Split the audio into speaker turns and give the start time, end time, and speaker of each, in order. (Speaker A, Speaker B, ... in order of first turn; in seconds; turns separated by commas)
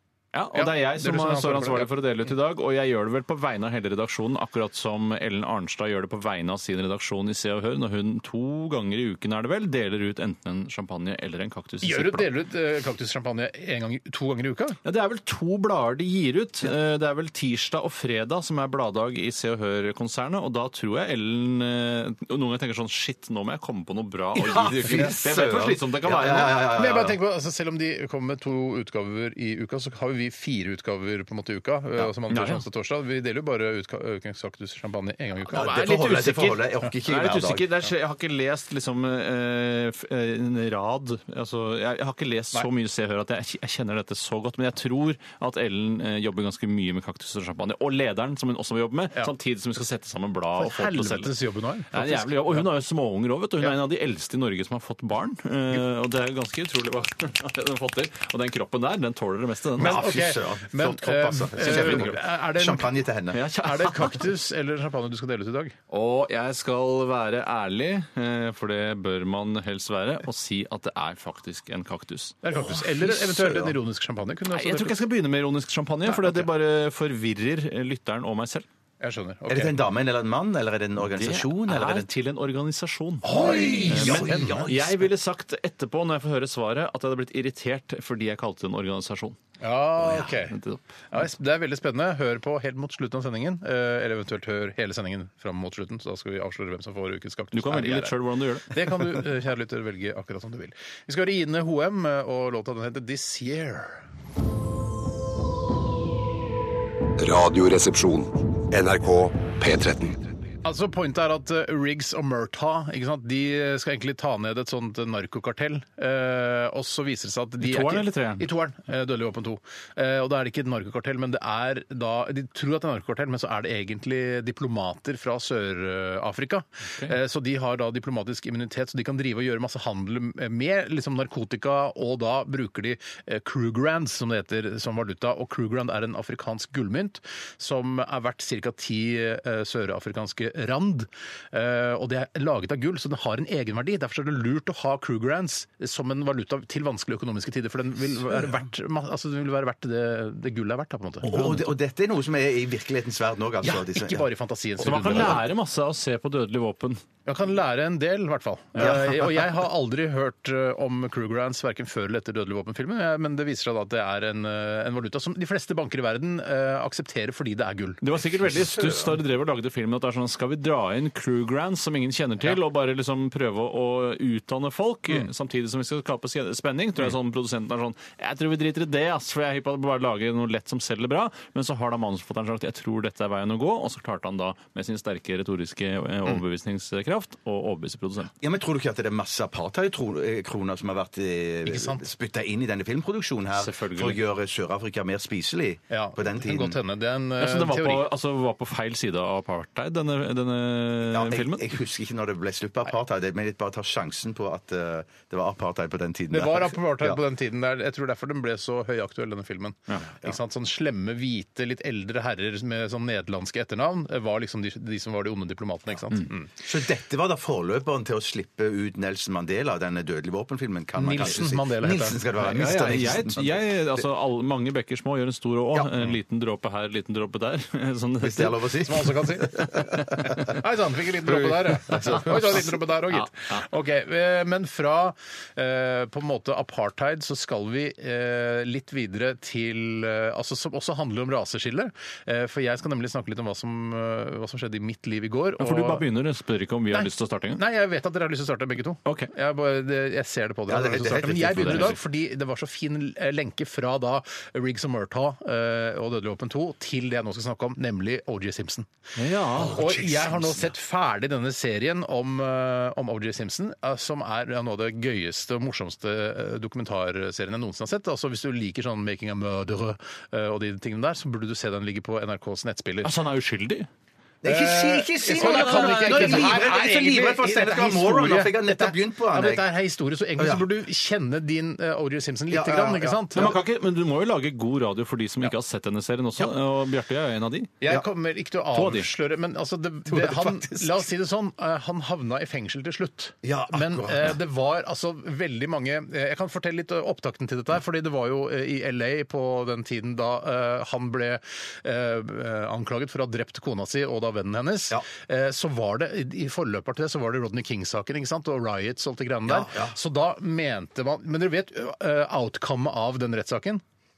Speaker A: 0.3-12.3, Speaker B: 0.5-1.9, Speaker B: 11.8-14.8, Speaker A: 14.8-26.6, Speaker C: 24.4-27.2, Speaker B: 24.9-25.1, Speaker B: 26.7-36.2, Speaker A: 32.3-32.6, Speaker C: 35.5-37.7, Speaker A: 35.6-51.4, Speaker B: 50.6-52.7, Speaker A: 51.9-60.0, Speaker C: 59.8-63.4, Speaker B: 59.8-63.0, Speaker A: 61.6-62.1, Speaker A: 63.3-64.2, Speaker B: 63.6-65.8, Speaker A: 65.9-72.4, Speaker B: 72.4-75.0, Speaker C: 72.6-73.5, Speaker A: 74.5-78.7, Speaker B: 76.1-76.5, Speaker B: 79.0-79.8, Speaker C: 79.5-82.1, Speaker A: 81.1-83.3, Speaker B: 83.2-84.9, Speaker C: 83.3-84.7, Speaker A: 83.9-89.4, Speaker B: 89.6-90.5, Speaker A: 90.2-91.0, Speaker B: 91.1-98.2, Speaker A: 97.5-99.2, Speaker B: 98.7-104.0, Speaker D: 107.2-110.2, Speaker B: 110.6-151.4, Speaker A: 117.6-118.5, Speaker C: 151.2-154.3, Speaker A: 151.3-151.6, Speaker B: 153.6-155.4, Speaker A: 154.8-157.0, Speaker C: 154.9-155.4, Speaker B: 157.3-168.0, Speaker C: 158.8-159.3, Speaker A: 168.0-188.3, Speaker C: 168.5-169.2, Speaker C: 188.4-196.8, Speaker B: 191.7-192.1, Speaker A: 193.6-194.2, Speaker B: 195.9-198.1, Speaker A: 197.4-201.7, Speaker C: 201.1-207.2, Speaker B: 206.3-216.6, Speaker C: 216.6-224.0, Speaker B: 221.0-222.2, Speaker A: 222.4-228.7, Speaker C: 225.7-226.1, Speaker C: 228.2-230.5, Speaker B: 228.8-229.7, Speaker B: 230.2-246.0, Speaker C: 231.7-232.7, Speaker A: 231.8-232.3, Speaker A: 233.1-233.6, Speaker A: 245.6-247.6, Speaker B: 246.9-258.9, Speaker A: 249.1-249.3, Speaker C: 250.7-252.0, Speaker A: 251.3-252.0, Speaker A: 259.2-259.8, Speaker B: 259.6-273.1, Speaker C: 259.7-260.6, Speaker A: 273.0-273.9, Speaker C: 274.4-279.7, Speaker B: 274.5-283.5, Speaker A: 275.4-276.5, Speaker C: 280.4-280.6, Speaker C: 282.5-283.6, Speaker A: 283.4-287.8, Speaker B: 287.8-313.8, Speaker A: 288.7-289.1, Speaker C: 290.1-291.1, Speaker C: 293.4-294.4, Speaker C: 309.5-310.0